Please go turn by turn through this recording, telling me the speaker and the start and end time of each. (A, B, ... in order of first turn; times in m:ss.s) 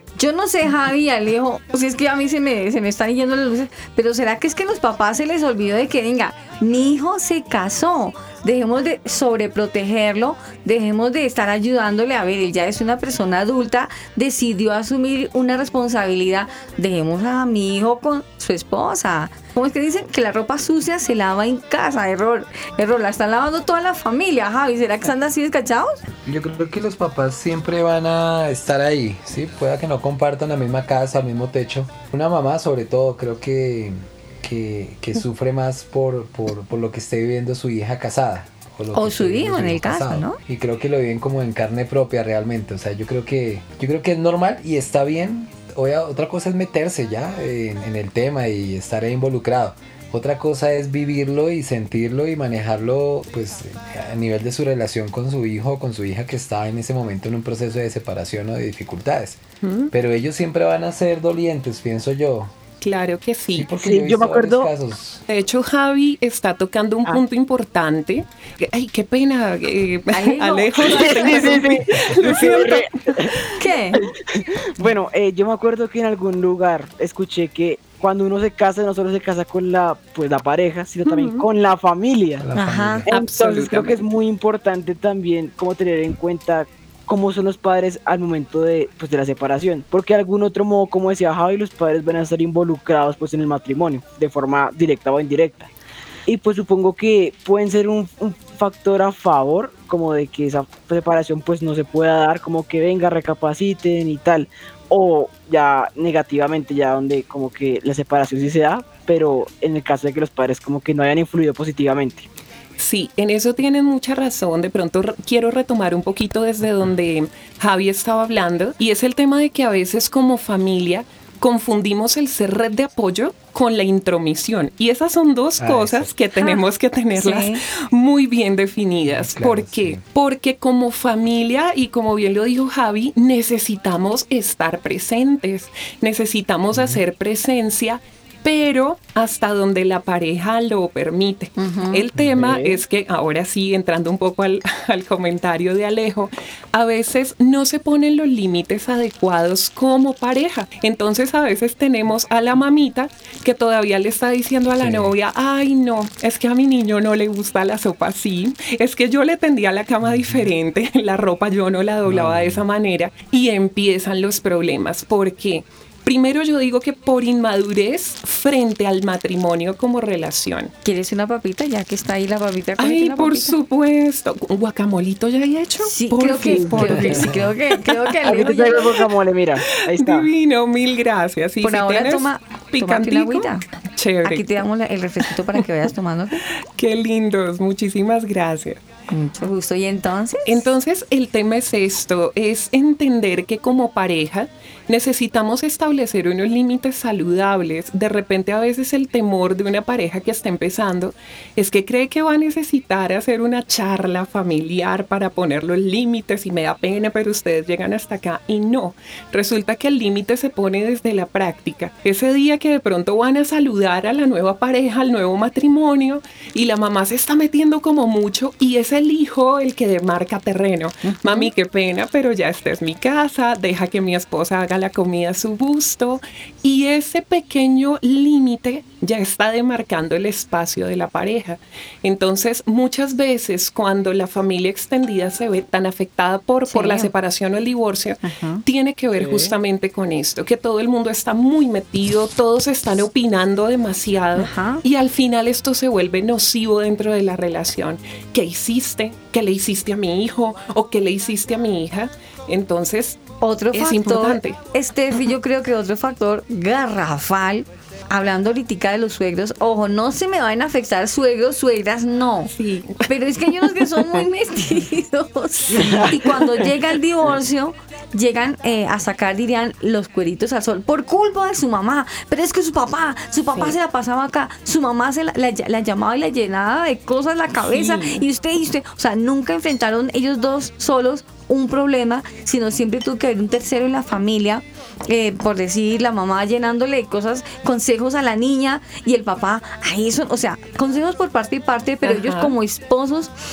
0:00.2-0:26.0 A
0:26.2-1:02.5 B
0:38.9-0:40.4 A
0:59.6-0:59.9 C
1:02.8-1:03.7 C
1:03.5-1:05.2 B
1:03.7-1:04.7 D
1:05.3-1:13.3 C
1:10.1-1:11.6 A
1:10.8-1:22.5 D
1:13.6-1:14.0 A
1:21.0-1:21.4 C
1:22.4-1:23.1 B
1:22.6-1:23.0 A
1:23.1-1:35.7 D
1:23.1-1:24.0 C
1:36.2-1:52.3 D
1:52.8-2:50.7 C
2:05.6-2:06.1 B
2:06.4-2:06.6 A
2:07.1-2:07.6 A
2:09.1-2:10.0 B
2:16.7-2:17.0 B
2:21.6-2:22.0 A
2:22.4-2:22.8 D
2:34.8-2:35.1 B
2:40.0-2:40.4 B
2:42.0-2:42.6 B
2:50.8-2:53.5 A
2:52.8-2:57.3 C
2:55.8-2:59.0 A
2:56.7-2:57.5 B
2:58.2-3:00.3 D
2:59.7-3:04.6 C
3:01.6-3:03.6 A
3:04.2-3:06.4 A
3:06.8-3:08.8 C
3:09.1-3:10.7 A
3:10.5-4:14.6 C
3:41.0-3:41.5 A
3:56.7-3:57.1 A
3:58.2-3:58.6 A
3:59.2-3:59.5 D
4:04.4-4:04.8 A
4:13.4-4:22.5 A
4:22.5-4:23.1 C
4:23.0-4:53.3 A
4:23.8-4:24.2 C
4:25.7-4:26.7 C
4:25.7-4:26.1 D
4:37.6-4:38.2 C
4:52.0-4:52.5 C